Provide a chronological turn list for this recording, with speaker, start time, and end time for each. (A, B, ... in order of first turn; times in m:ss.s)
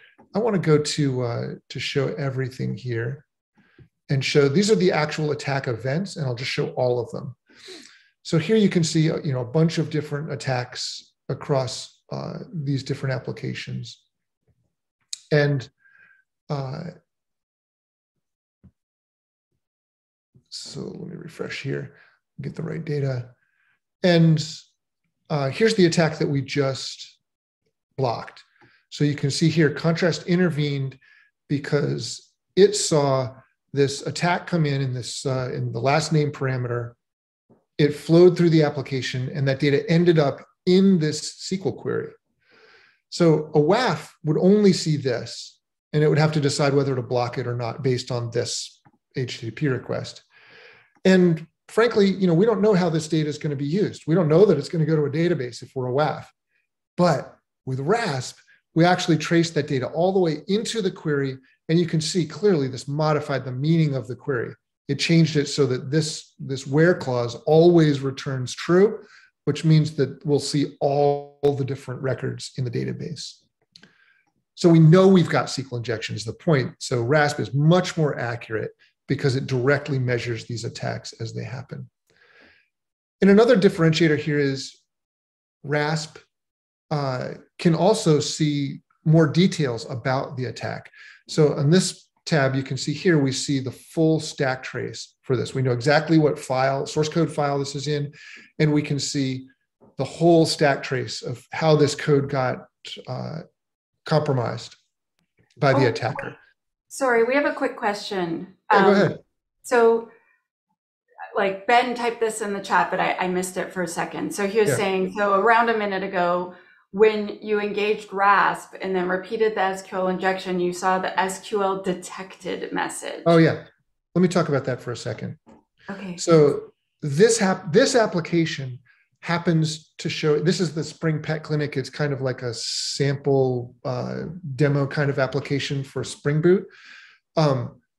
0:00.3-0:03.2 A
0:04.1-0:07.4 A
0:08.2-0:14.0 A
0:15.3-0:15.7 A
0:16.5-0:16.9 A
0:20.5-0:23.3 A
0:24.0-0:24.6 A
0:25.3-0:27.2 A
0:28.0-0:37.0 A
0:37.8-0:42.1 A
0:43.1-0:50.2 A
0:51.0-0:56.3 A
0:57.0-1:13.4 A
1:14.6-1:21.9 A
1:23.2-1:24.8 A
1:25.6-1:26.2 A
1:26.9-1:43.4 A
1:44.0-1:44.8 A
1:45.6-1:46.4 A
1:46.9-1:50.1 B
1:48.7-1:49.2 A
1:51.3-2:03.4 B
2:03.2-2:05.4 A
2:05.9-2:06.2 B
2:06.2-2:16.7 A
2:17.4-2:17.8 A